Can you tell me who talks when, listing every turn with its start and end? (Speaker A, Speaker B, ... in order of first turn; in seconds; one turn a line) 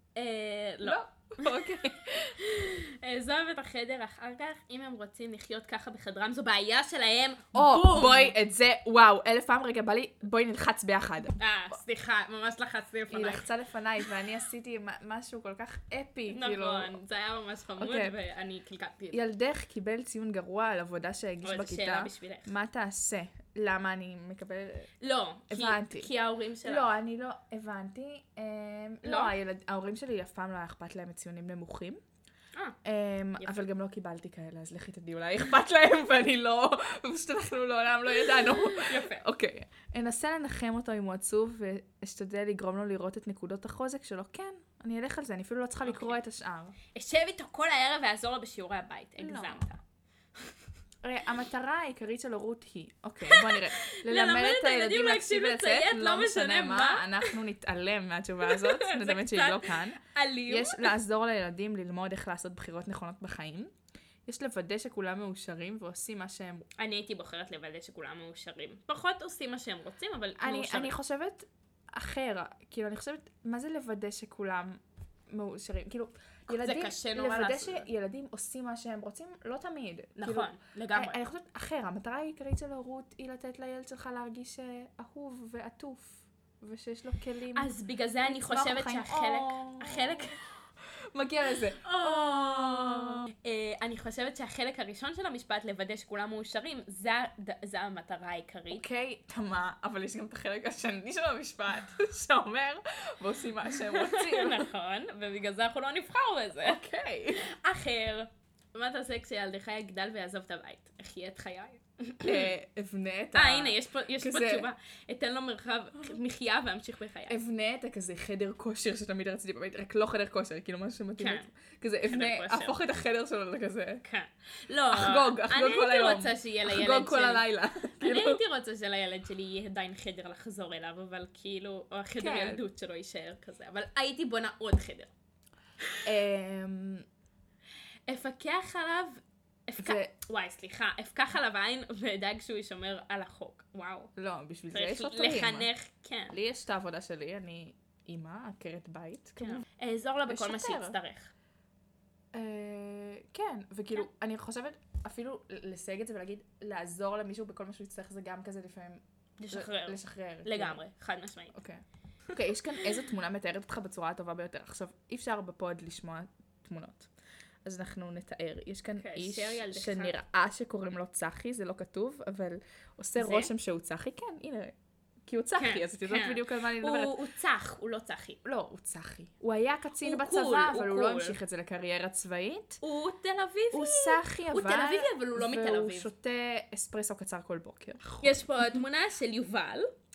Speaker A: 0.1-1.5
Speaker B: 0.8-2.4
Speaker A: 2.2-8.3
Speaker B: 7.5-11.4
Speaker A: 11.4-13.5
Speaker B: 13.1-17.0
Speaker A: 16.3-19.2
Speaker B: 17.8-18.1
Speaker B: 19.1-24.9
Speaker A: 21.4-22.5
Speaker A: 25.0-26.9
Speaker B: 25.5-26.1
Speaker B: 26.6-32.0
Speaker A: 29.0-29.4
Speaker B: 32.8-46.8
Speaker A: 33.4-33.6
Speaker A: 38.5-39.2
Speaker A: 45.9-46.2
Speaker A: 46.9-49.8
Speaker B: 49.2-49.7
Speaker B: 51.0-63.7
Speaker A: 53.2-57.4
Speaker A: 58.4-60.9
Speaker B: 64.3-66.7
Speaker A: 66.8-71.0
Speaker B: 70.4-87.7
Speaker A: 76.5-77.9
Speaker A: 80.2-81.2
Speaker A: 87.5-90.4
Speaker B: 88.2-90.5
Speaker B: 91.1-93.3
Speaker A: 91.8-98.9
Speaker B: 98.7-104.7
Speaker A: 103.8-112.5
Speaker B: 106.6-107.5
Speaker B: 112.2-114.7
Speaker A: 113.3-117.4
Speaker B: 117.3-124.0
Speaker A: 121.2-121.5
Speaker A: 122.1-122.8
Speaker A: 124.0-135.1
Speaker B: 124.9-128.4
Speaker B: 132.2-132.7
Speaker B: 136.1-137.1
Speaker A: 138.1-144.1
Speaker B: 139.8-140.1
Speaker B: 144.2-145.7
Speaker A: 144.7-146.4
Speaker B: 146.3-149.7
Speaker A: 149.4-151.3
Speaker B: 150.3-151.0
Speaker B: 152.3-160.8
Speaker A: 159.4-161.6
Speaker B: 161.5-167.1
Speaker B: 167.6-174.7
Speaker A: 169.0-170.2
Speaker A: 173.2-173.5
Speaker B: 175.3-177.2
Speaker A: 175.6-178.4
Speaker B: 178.4-182.8
Speaker A: 180.0-181.4
Speaker A: 182.8-186.1
Speaker B: 183.7-188.8
Speaker A: 188.2-189.9